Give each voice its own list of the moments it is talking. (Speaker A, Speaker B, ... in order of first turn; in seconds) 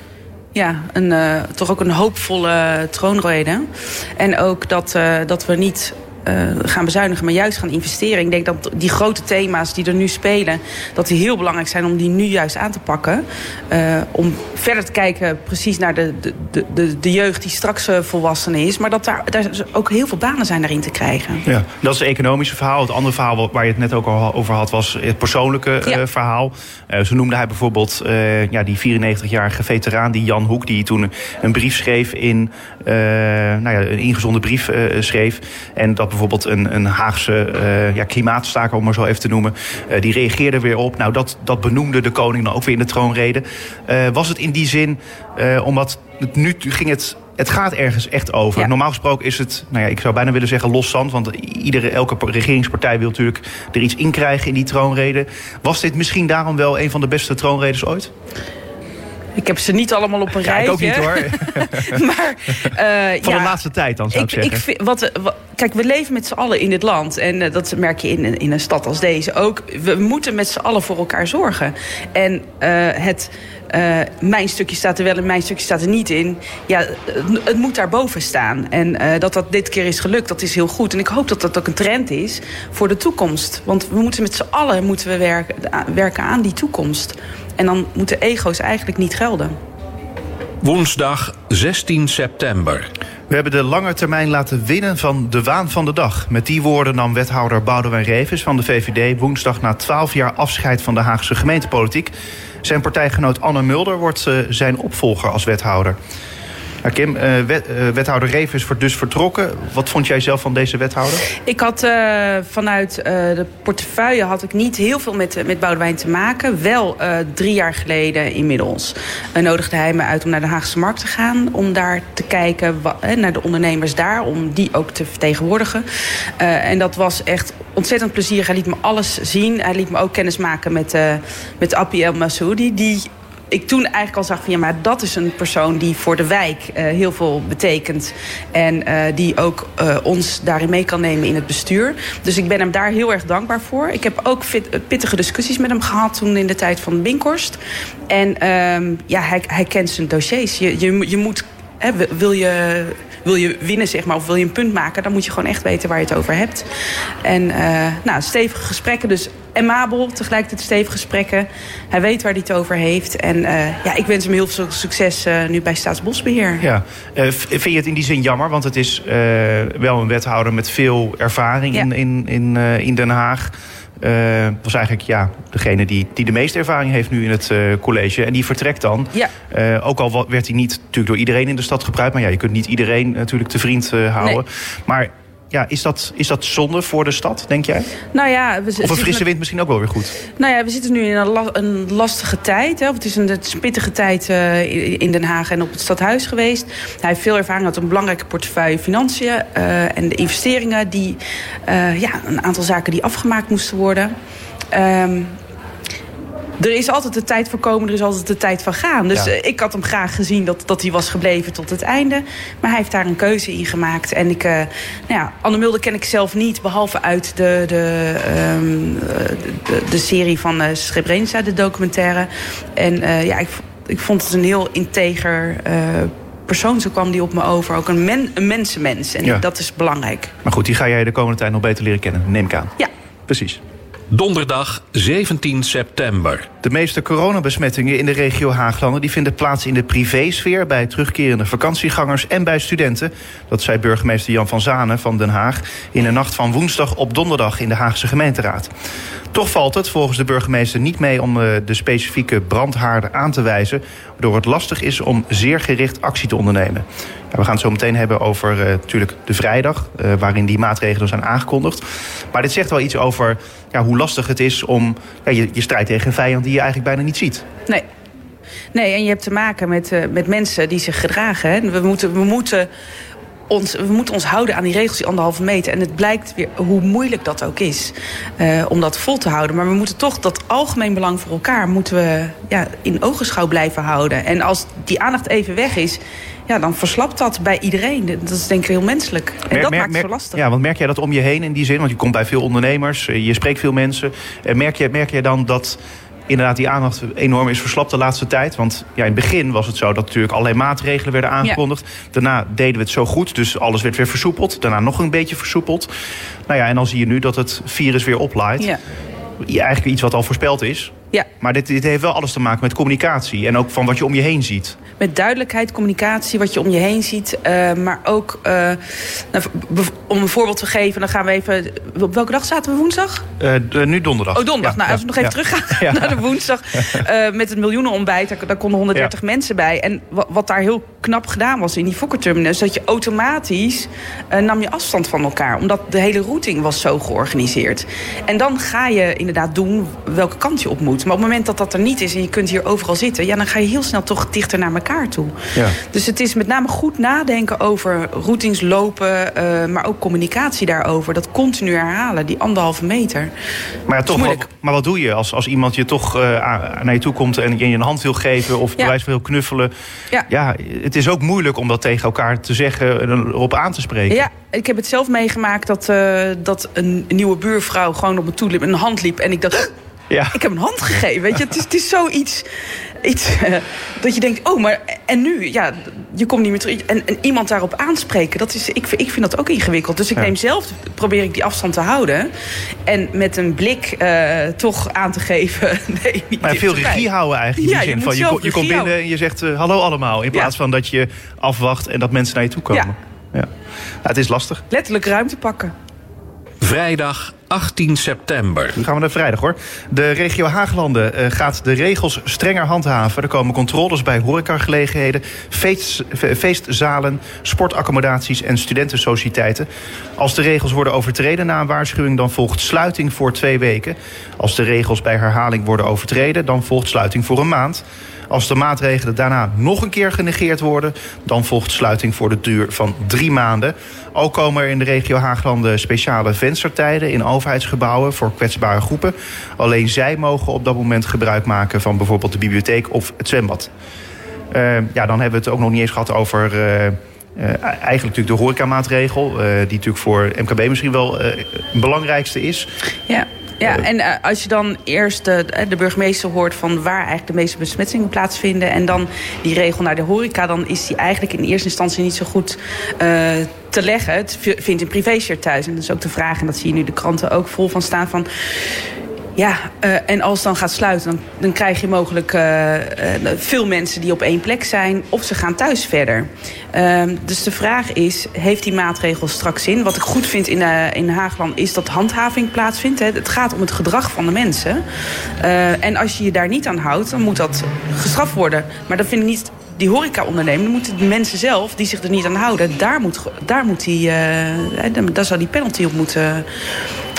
Speaker A: 0.5-21.4, 59.4-63.6, 64.1-89.6, 111.5-125.8, 126.4-147.6, 148.1-156.7, 157.2-166.7, 188.1-189.2, 190.4-204.2, 204.7-205.4, 206.6-230.3, 268.7-272.7, 273.5-290.4, 315.0-323.3, 324.3-353.3, 354.1-354.4, 364.1-369.7, 370.3-372.5, 373.0-382.3, 382.9-388.9, 394.7-395.7, 443.1-458.3, 459.4-474.8, 475.4-486.5
Speaker B: 21.5-58.1, 60.4-62.0, 63.2-64.6, 93.3-102.1, 102.6-106.0, 106.8-111.2, 166.6-187.9, 188.8-190.2, 230.4-232.8, 233.3-233.6, 236.6-248.7, 249.3-267.5, 289.5-305.9, 306.5-308.7, 309.4-314.8, 323.4-326.2, 353.9-359.7, 360.3-364.2, 370.1-370.4, 386.4-393.5, 394.0-394.6, 398.8-433.7, 434.5-442.7
Speaker C: 90.6-92.9, 234.1-236.5, 396.6-398.8